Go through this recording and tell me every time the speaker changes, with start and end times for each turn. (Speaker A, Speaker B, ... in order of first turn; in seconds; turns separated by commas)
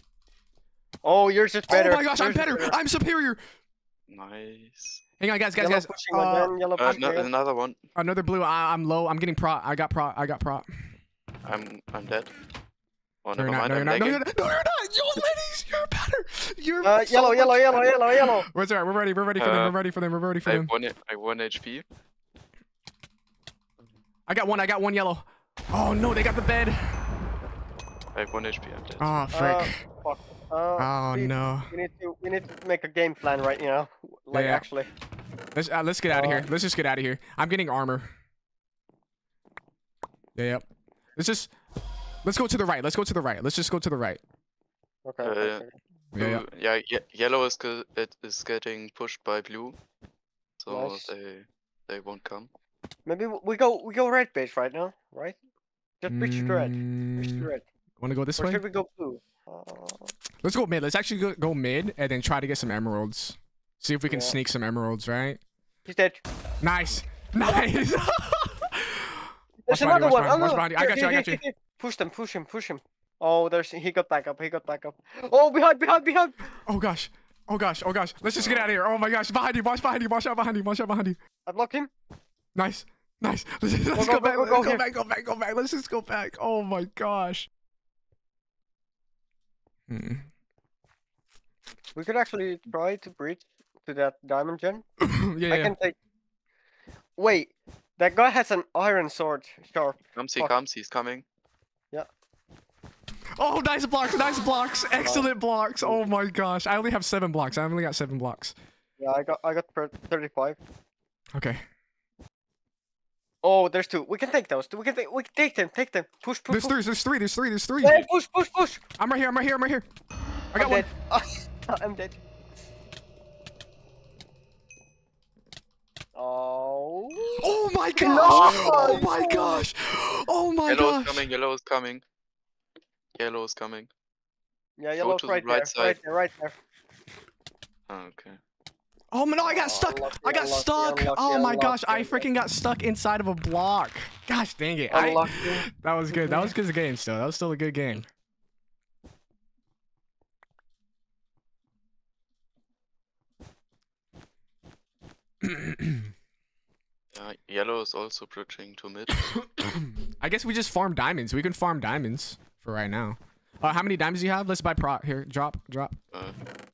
Speaker A: 1.0-2.8, Speaker B: 1.7-3.4, Speaker C: 4.1-5.0, Speaker B: 5.2-6.5, Speaker A: 5.6-7.3, Speaker C: 6.8-7.8, Speaker B: 7.9-10.7, Speaker C: 11.4-12.3, Speaker C: 13.2-14.2, Speaker B: 13.4-20.7, Speaker A: 16.8-18.5, Speaker C: 19.4-19.7, Speaker C: 20.4-21.8, Speaker B: 24.3-27.1, Speaker C: 28.1-29.1, Speaker B: 29.0-29.8, Speaker A: 29.3-34.9, Speaker B: 30.8-31.7, Speaker B: 34.3-34.6, Speaker B: 35.5-38.1, Speaker A: 36.1-36.5, Speaker B: 40.4-40.6, Speaker B: 41.1-41.5, Speaker B: 42.2-44.2, Speaker A: 45.0-45.8, Speaker C: 45.2-45.6, Speaker B: 46.1-46.4, Speaker C: 46.2-49.8, Speaker C: 50.6-52.5, Speaker A: 50.7-51.1, Speaker A: 53.0-55.4, Speaker A: 56.0-57.6, Speaker B: 56.1-58.6, Speaker A: 58.4-60.1, Speaker B: 60.4-65.4, Speaker A: 64.1-64.4, Speaker A: 65.8-66.2, Speaker B: 66.6-71.4, Speaker A: 67.4-67.8, Speaker A: 69.6-76.5, Speaker B: 76.7-81.2, Speaker C: 78.4-78.7, Speaker A: 81.5-81.9, Speaker B: 82.5-87.5, Speaker A: 83.9-84.8, Speaker B: 89.9-90.3, Speaker A: 91.9-94.9, Speaker B: 95.0-95.7, Speaker A: 95.5-95.9, Speaker A: 97.2-100.5, Speaker C: 100.2-101.2, Speaker B: 103.4-108.5, Speaker A: 105.0-105.3, Speaker A: 109.0-110.6, Speaker B: 111.3-111.6, Speaker A: 113.4-116.8, Speaker B: 116.5-118.1, Speaker A: 117.8-118.8, Speaker B: 119.0-119.8, Speaker B: 120.5-120.9, Speaker A: 120.5-122.2, Speaker A: 126.1-127.4, Speaker B: 127.4-131.3, Speaker A: 127.9-129.6, Speaker C: 128.2-129.1, Speaker C: 130.7-132.0, Speaker C: 133.2-133.9, Speaker A: 134.8-136.6, Speaker C: 135.0-136.0, Speaker C: 137.9-138.4, Speaker B: 139.1-148.1, Speaker A: 139.4-142.3, Speaker A: 144.9-146.5, Speaker B: 155.4-156.1, Speaker C: 157.1-159.3, Speaker B: 159.6-166.0, Speaker C: 166.1-166.4